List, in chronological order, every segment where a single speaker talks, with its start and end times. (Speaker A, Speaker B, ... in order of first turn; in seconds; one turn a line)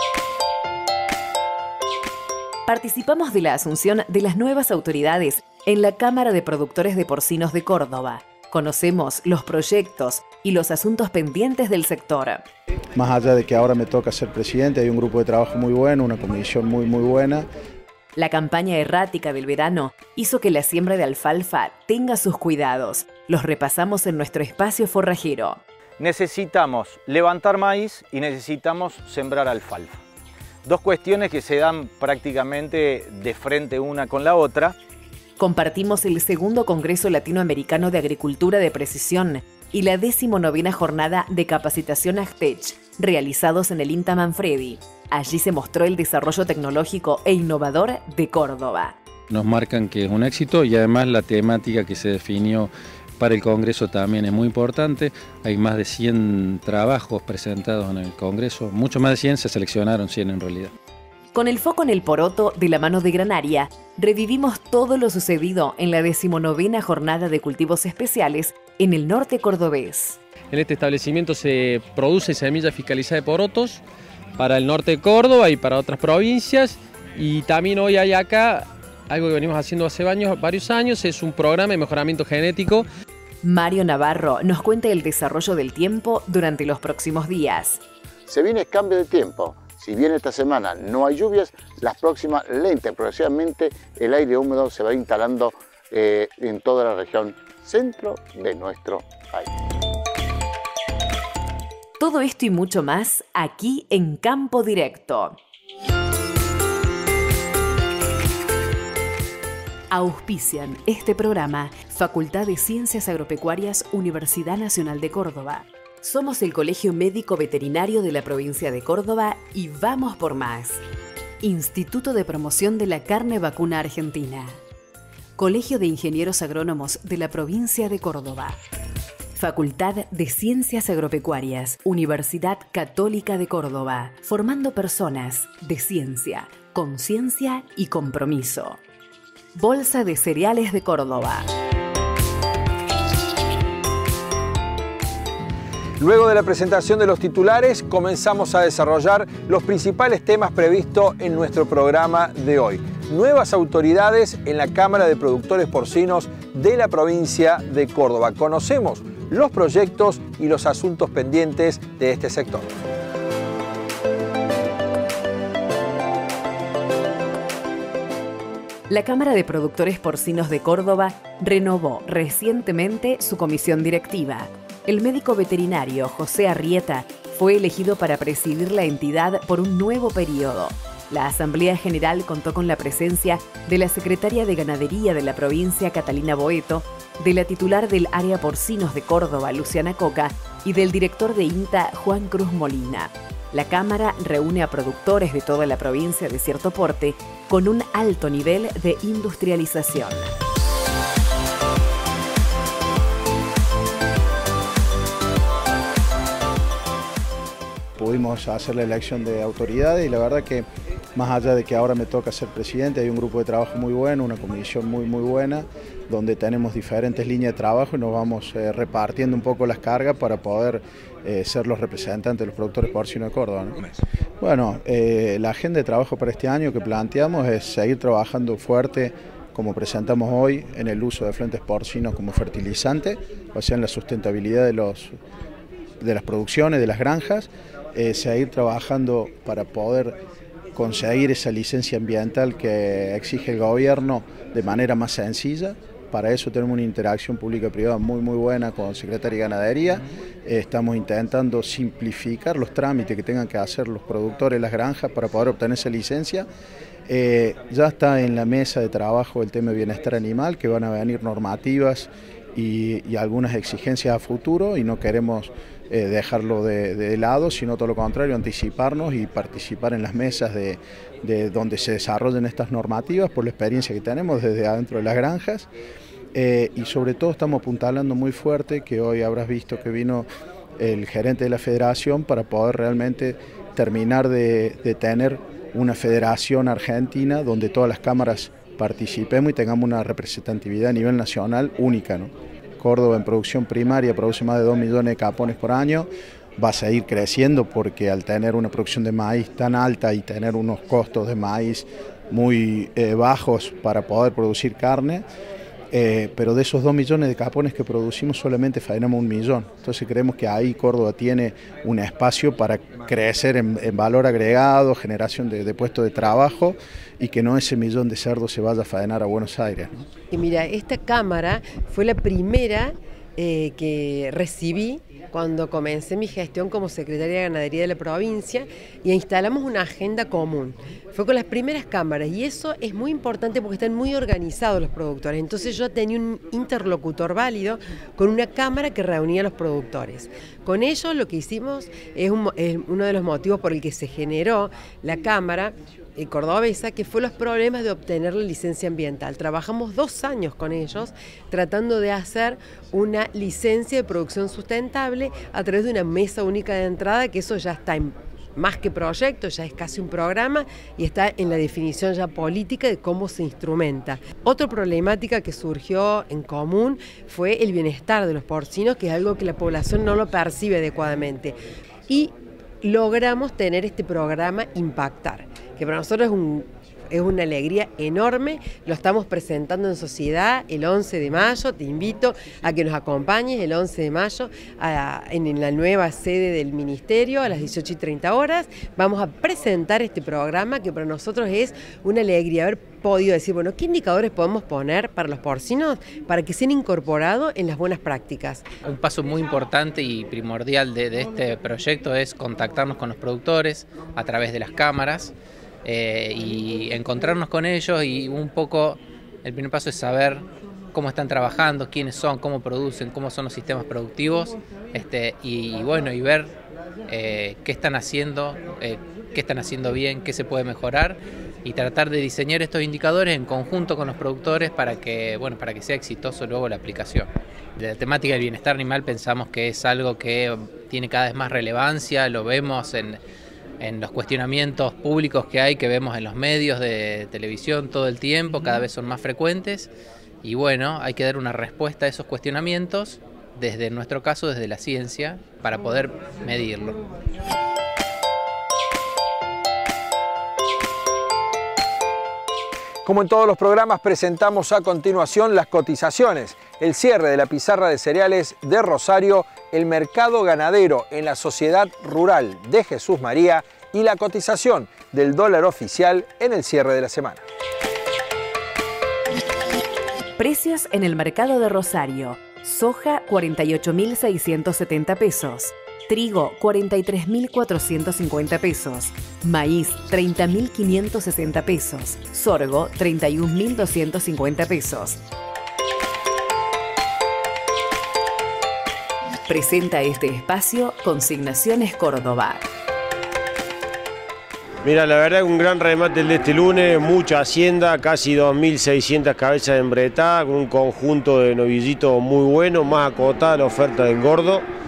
Speaker A: 2.7-12.4
Speaker B: 13.0-17.5
Speaker A: 18.2-25.6
Speaker C: 26.0-30.0
Speaker C: 30.6-34.8
Speaker A: 35.4-49.0
Speaker D: 49.3-60.7
Speaker A: 61.3-70.2
Speaker E: 70.5-73.8
Speaker E: 74.4-82.9
Speaker A: 83.4-87.8
Speaker F: 88.3-99.5
Speaker A: 102.0-105.4
Speaker A: 109.9-120.8
Speaker A: 121.4-124.6
Speaker A: 125.4-128.6
Speaker A: 129.4-138.8
Speaker A: 139.6-141.5
Speaker G: 146.0-162.7
Speaker A: 168.9-200.4
Speaker B: 208.0-223.8
Speaker B: 224.4-235.2
Speaker B: 236.0-240.2
Speaker B: 240.8-256.5
Speaker B: 257.1-275.7
Speaker B: 276.4-305.2
Speaker B: 305.9-320.1
Speaker H: 320.3-371.6
Speaker H: 372.1-398.7
Speaker I: 398.8-405.3
Speaker I: 405.9-416.6
Speaker I: 417.1-433.2
Speaker I: 433.8-439.9
Speaker I: 440.4-447.0
Speaker G: 453.1-467.4
Speaker A: 470.4-485.2
Speaker A: 489.5-492.7
Speaker J: 494.8-504.7